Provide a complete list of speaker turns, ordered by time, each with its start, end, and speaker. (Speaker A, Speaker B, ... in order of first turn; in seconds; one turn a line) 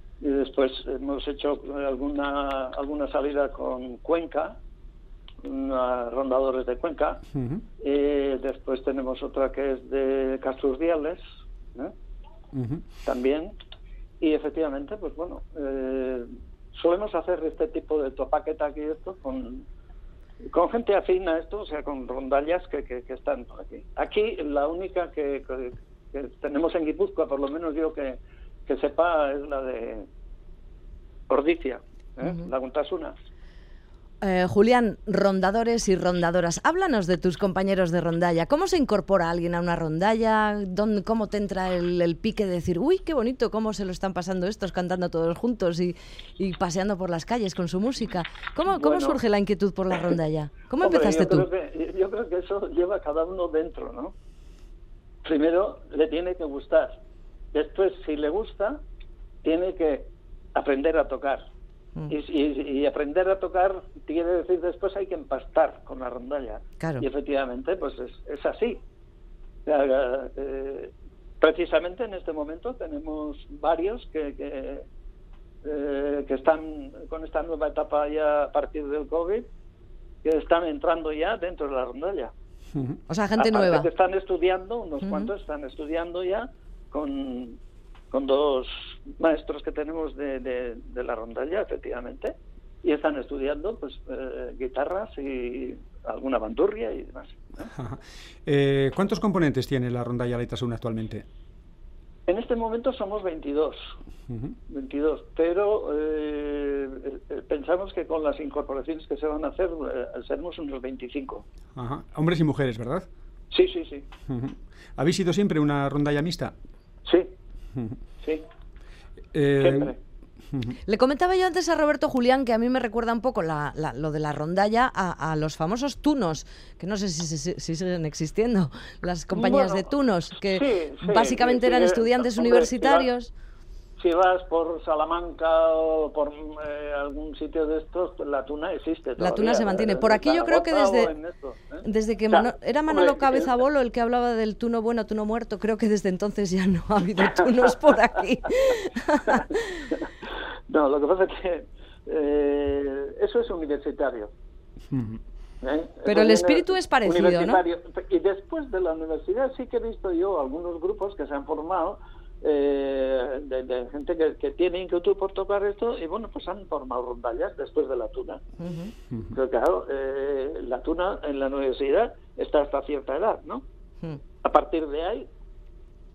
Speaker A: 0.2-4.6
Speaker A: 5.4-7.2
Speaker B: 7.3-7.6
Speaker A: 7.8-11.2
Speaker B: 12.5-12.8
Speaker A: 13.1-13.6
Speaker A: 14.2-19.6
Speaker A: 20.5-30.1
Speaker A: 31.3-33.1
Speaker C: 34.2-51.5
Speaker A: 48.7-49.2
Speaker A: 50.8-54.1
Speaker A: 55.2-57.0
Speaker A: 57.5-58.8
Speaker A: 59.4-61.4
Speaker A: 62.1-68.8
Speaker C: 66.8-67.0
Speaker A: 69.7-74.8
Speaker A: 75.6-79.5
Speaker A: 80.2-82.3
Speaker C: 83.1-83.9
Speaker A: 83.4-87.6
Speaker C: 85.0-85.3
Speaker A: 88.1-97.7
Speaker B: 97.7-101.2
Speaker A: 102.3-103.9
Speaker B: 104.3-104.6
Speaker A: 104.7-111.5
Speaker B: 111.8-113.1
Speaker A: 113.5-114.1
Speaker B: 114.3-116.5
Speaker A: 117.1-117.3
Speaker B: 119.3-119.9
Speaker A: 119.6-120.0
Speaker B: 120.5-120.8
Speaker C: 120.9-133.3
Speaker A: 129.3-129.9
Speaker A: 130.4-133.1
Speaker A: 134.0-143.5
Speaker C: 139.2-141.1
Speaker C: 141.8-149.6
Speaker A: 150.7-154.3
Speaker B: 154.9-155.2
Speaker A: 155.6-168.4
Speaker C: 156.1-157.6
Speaker C: 168.6-168.9
Speaker A: 169.3-173.7
Speaker A: 174.4-175.3